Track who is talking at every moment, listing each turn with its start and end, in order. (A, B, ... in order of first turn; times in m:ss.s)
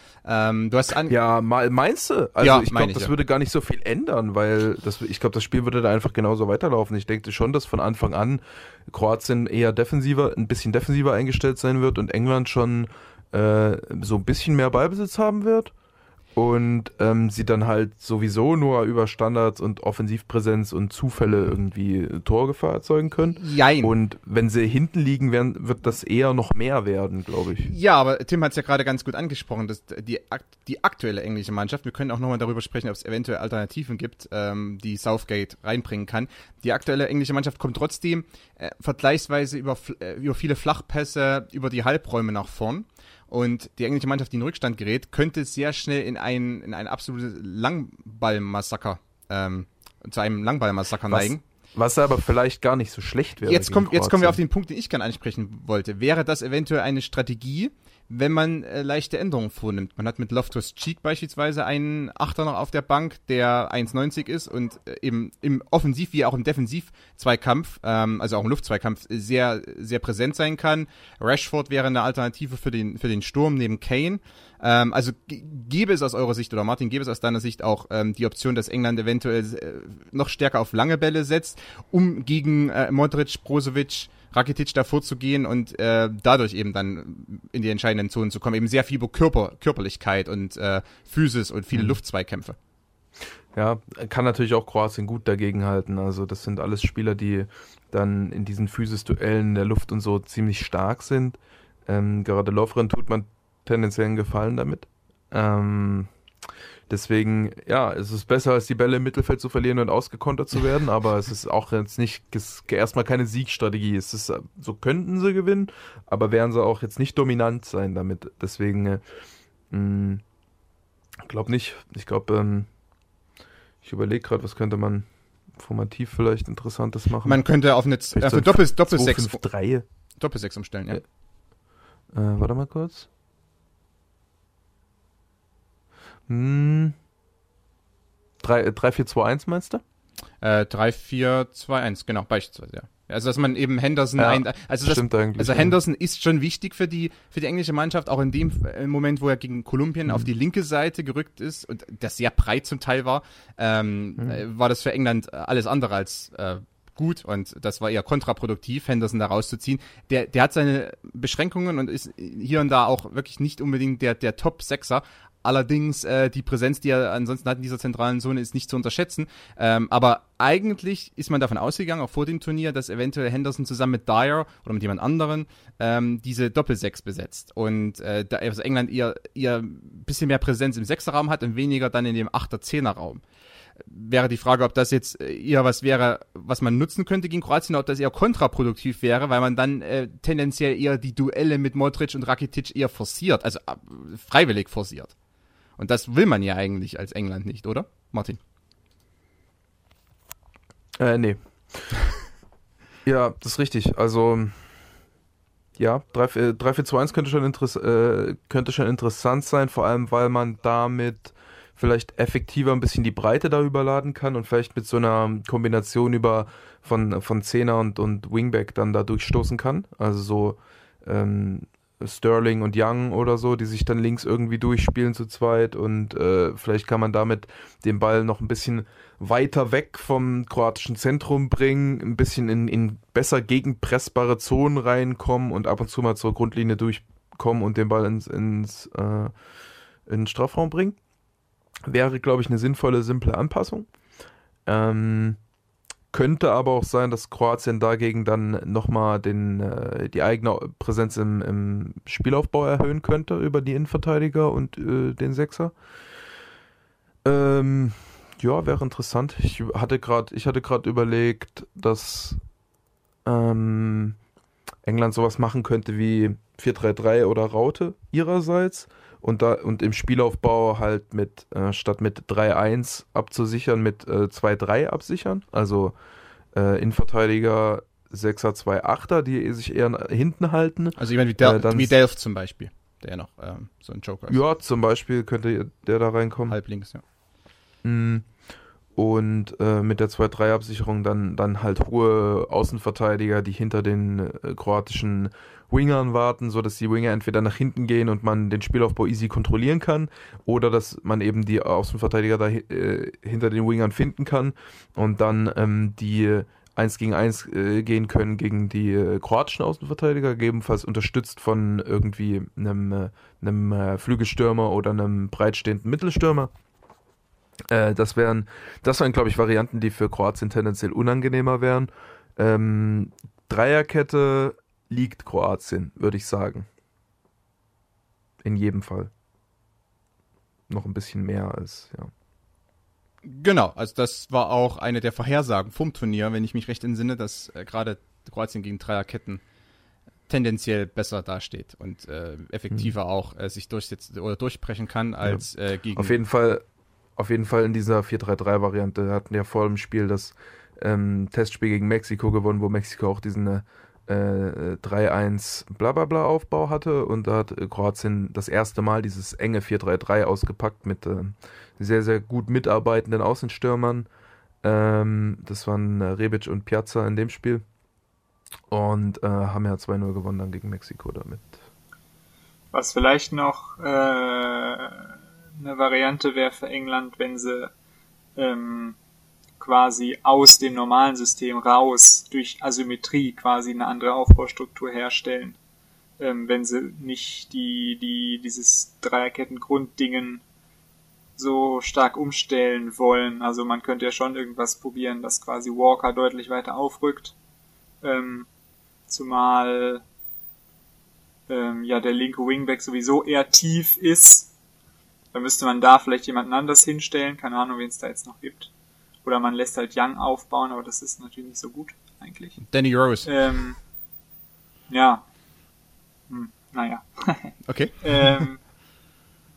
0:00.2-0:01.1 A
0:01.1-0:15.7 B
0:02.4-0:03.1 A
0:16.3-0:27.7 B
0:23.4-0:23.9 A
0:27.6-0:51.4 A
0:51.1-0:54.4 B
0:53.4-1:32.6 A
1:31.7-1:32.0 B
1:33.5-1:46.1 B
1:46.9-1:59.0 B
1:59.7-2:00.2 B
2:01.2-2:02.7 B
2:03.8-2:07.4 B
2:07.2-2:09.4 A
2:08.1-2:09.8 B
2:10.2-2:11.0 A
2:12.1-2:13.1 B
2:16.3-2:17.0 B
2:18.4-2:19.8 B
2:20.4-3:03.2 A
2:24.2-2:25.8 B
3:03.8-3:15.1 A
3:15.8-3:18.4 A
3:21.0-3:21.8 B
3:23.0-3:24.6 B
3:25.8-3:59.3 B
4:00.1-4:01.0 B
4:01.9-4:03.9 B
4:04.7-4:05.4 B
4:06.1-4:15.7 B
4:17.2-4:22.4 B
4:23.2-4:24.2 B
4:24.8-4:36.0 B
4:36.5-4:41.9 B
4:41.0-4:44.4 A
4:44.3-4:46.6 B
4:46.5-4:47.0 A
4:47.8-4:48.3 B
4:49.0-5:16.5 B
5:17.7-5:26.7 B
5:28.4-5:29.1 B
5:30.7-5:32.1 B
5:33.2-5:39.4 A
5:40.3-5:46.1 A
5:45.2-5:46.6 B
5:47.2-6:04.1 B
6:04.6-6:07.6 B
6:08.7-6:11.6 B
6:12.7-6:17.7 C
6:18.4-6:19.0 C
6:19.6-6:25.6 C
6:26.2-6:30.4 C
6:31.4-6:37.3 C
6:38.0-6:38.5 C
6:39.1-6:40.0 C
6:41.5-6:44.5 C
6:45.3-6:48.7 C
6:49.2-6:52.6 C
6:52.7-6:53.3 A
6:53.2-6:53.8 C
6:54.9-6:55.2 C
6:56.3-6:58.6 C
6:57.7-6:58.4 A